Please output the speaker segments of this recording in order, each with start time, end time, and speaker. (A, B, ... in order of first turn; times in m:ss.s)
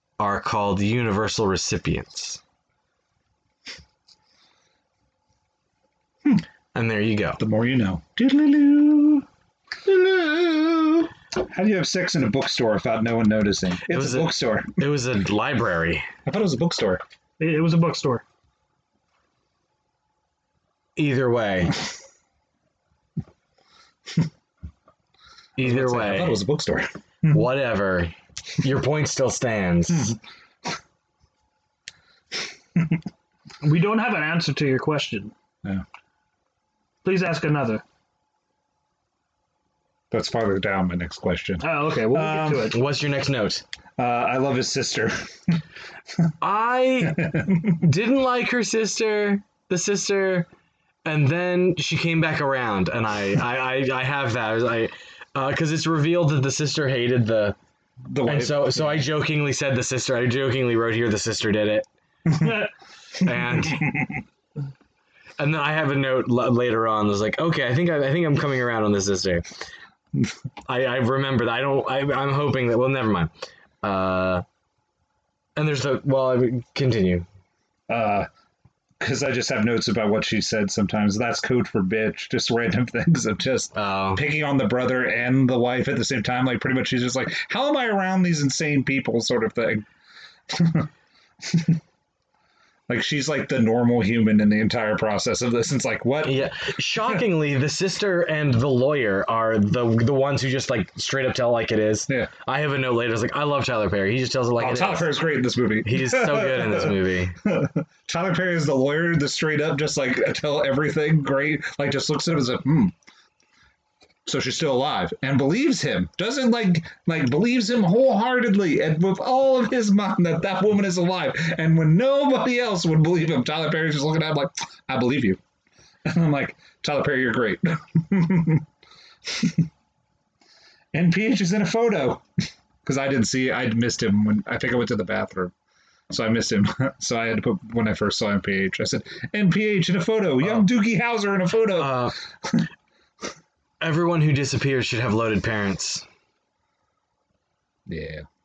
0:00.2-0:02.4 A
0:06.7-0:07.4 A
0:07.4-0:09.3 B
0:09.9-0:14.8 B
0:13.8-0:16.1 A
0:16.3-0:17.0 B
0:17.4-0:18.2 C
0:21.0-0:21.8 A
0:25.6-0:26.4 A
0:25.6-0:27.4 B
0:27.3-0:30.2 A
0:33.6-0:35.3 C
0:37.0-0:37.8 C
0:40.1-0:42.7 B
0:41.6-0:42.8 C
0:42.7-0:43.6 A
0:44.0-0:45.6 B
0:46.4-0:50.5 A
0:47.0-0:47.8 B
0:51.0-0:57.6 A
0:58.1-0:59.1 B
0:58.2-1:01.9 A
1:02.4-1:02.7 C
1:03.2-1:04.0 A
1:03.4-1:04.2 B
1:05.4-1:09.5 A
1:10.7-1:13.3 A
1:13.8-1:14.4 A
1:15.6-1:17.3 A
1:17.9-1:18.3 B
1:19.0-1:29.9 B
1:23.7-1:24.2 A
1:30.5-1:30.9 B
1:31.4-1:31.8 B
1:32.9-1:37.2 B
1:36.2-1:45.1 A
1:44.6-1:52.9 B
1:45.8-1:47.4 A
1:54.3-2:05.4 B
2:06.0-2:08.7 B
2:09.3-2:09.7 B
2:10.9-2:12.2 B
2:12.8-2:15.5 B
2:16.1-2:22.7 B
2:20.4-2:20.7 A
2:21.8-2:22.2 A
2:23.8-2:26.0 A
2:27.9-2:28.2 B